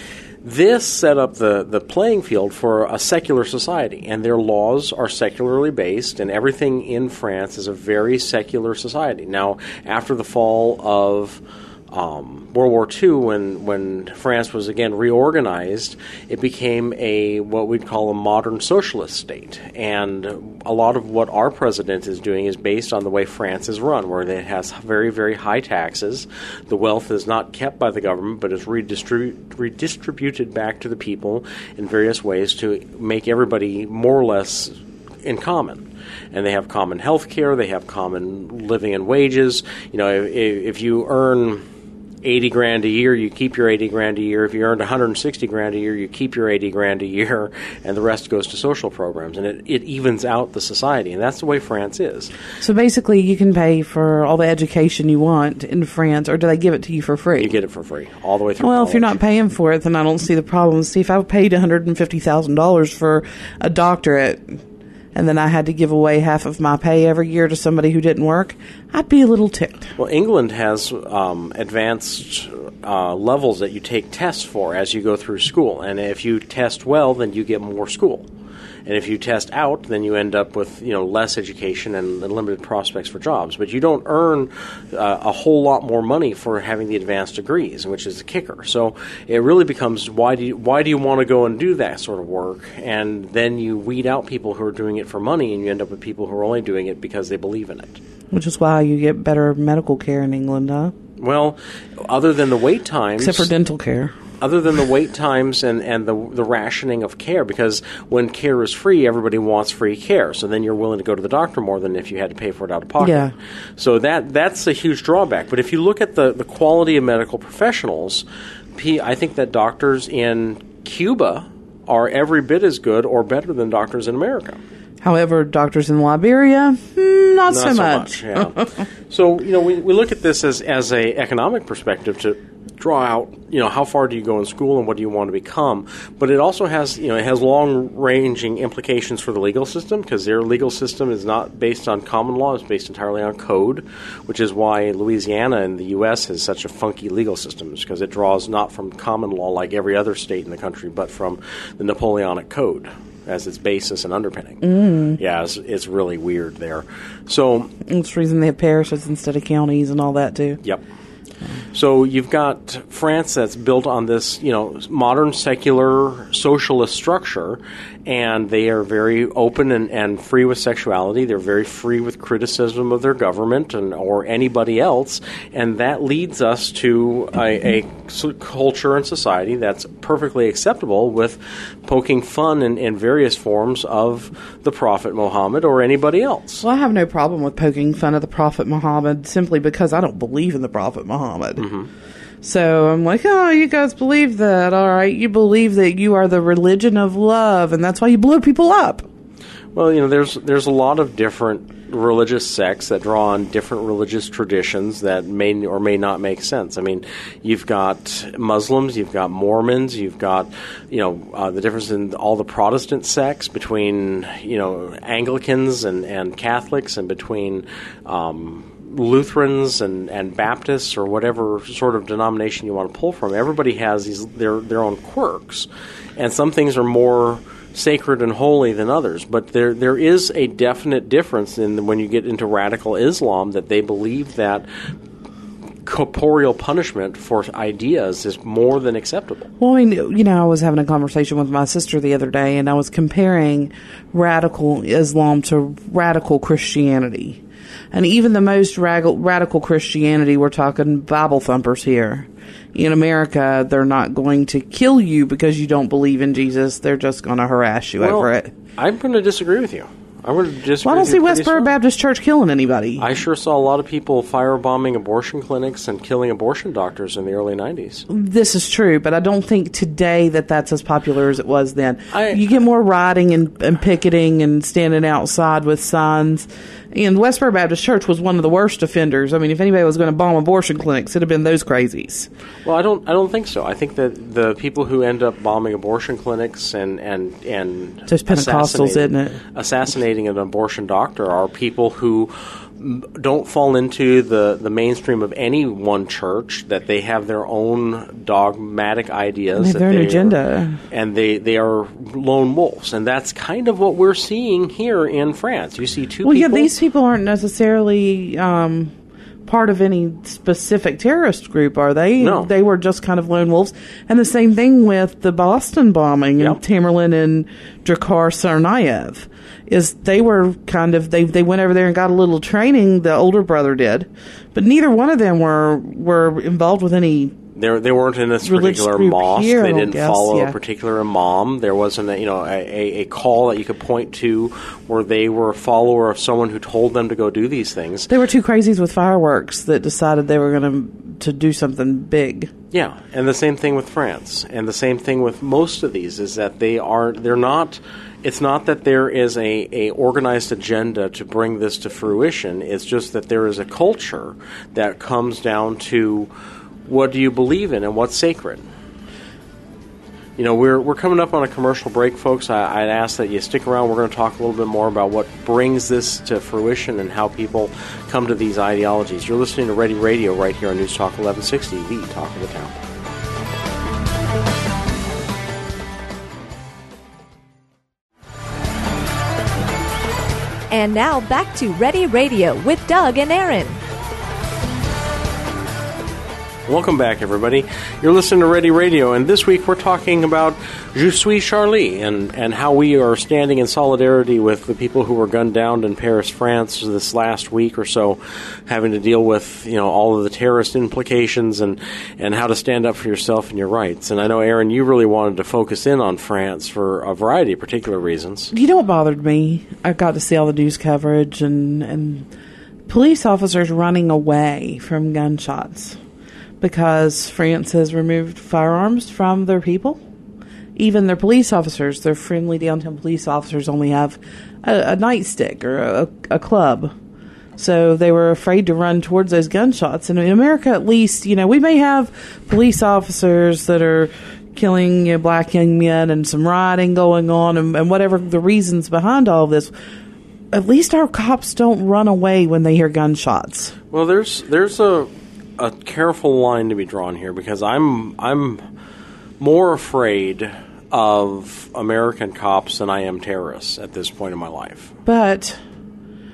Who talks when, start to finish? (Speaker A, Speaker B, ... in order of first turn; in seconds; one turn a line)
Speaker A: 0.4-41.6
Speaker A: 42.2-52.4
Speaker B: 52.6-57.5
Speaker A: 57.4-59.2
Speaker B: 58.6-64.6
Speaker B: 65.1-69.9
Speaker A: 70.0-78.3
Speaker A: 78.9-98.0
Speaker B: 98.3-100.9
Speaker A: 101.2-103.5
Speaker B: 103.2-104.2
Speaker A: 104.4-124.6
Speaker B: 113.0-113.3
Speaker B: 125.0-128.8
Speaker A: 127.5-157.7
Speaker B: 154.6-155.2
Speaker B: 157.9-160.6
Speaker A: 161.7-186.7
Speaker B: 186.6-191.7
Speaker A: 191.6-191.9
Speaker B: 192.4-199.1
Speaker A: 199.7-234.7
Speaker A: 235.8-239.5
Speaker B: 239.6-247.4
Speaker B: 247.9-258.5
Speaker A: 258.0-261.7
Speaker B: 260.8-263.0
Speaker A: 263.0-268.1
Speaker B: 268.1-282.3
Speaker A: 272.1-272.5
Speaker A: 282.6-300.4
Speaker B: 288.1-289.4
Speaker B: 299.6-300.8
Speaker A: 300.9-306.7
Speaker B: 306.2-308.9
Speaker B: 309.5-327.4
Speaker A: 312.2-312.5
Speaker A: 327.6-338.1
Speaker B: 328.4-330.6
Speaker B: 338.1-342.5
Speaker A: 342.7-356.3
Speaker A: 356.9-358.7
Speaker A: 360.4-372.8
Speaker C: 380.7-383.8
Speaker A: 386.7-408.5
Speaker B: 408.5-412.3
Speaker B: 412.9-416.0
Speaker B: 416.6-420.0
Speaker B: 420.8-426.9
Speaker B: 427.6-439.7
Speaker B: 440.5-443.8
Speaker A: 443.9-448.6
Speaker A: 449.4-454.9
Speaker B: 455.1-455.6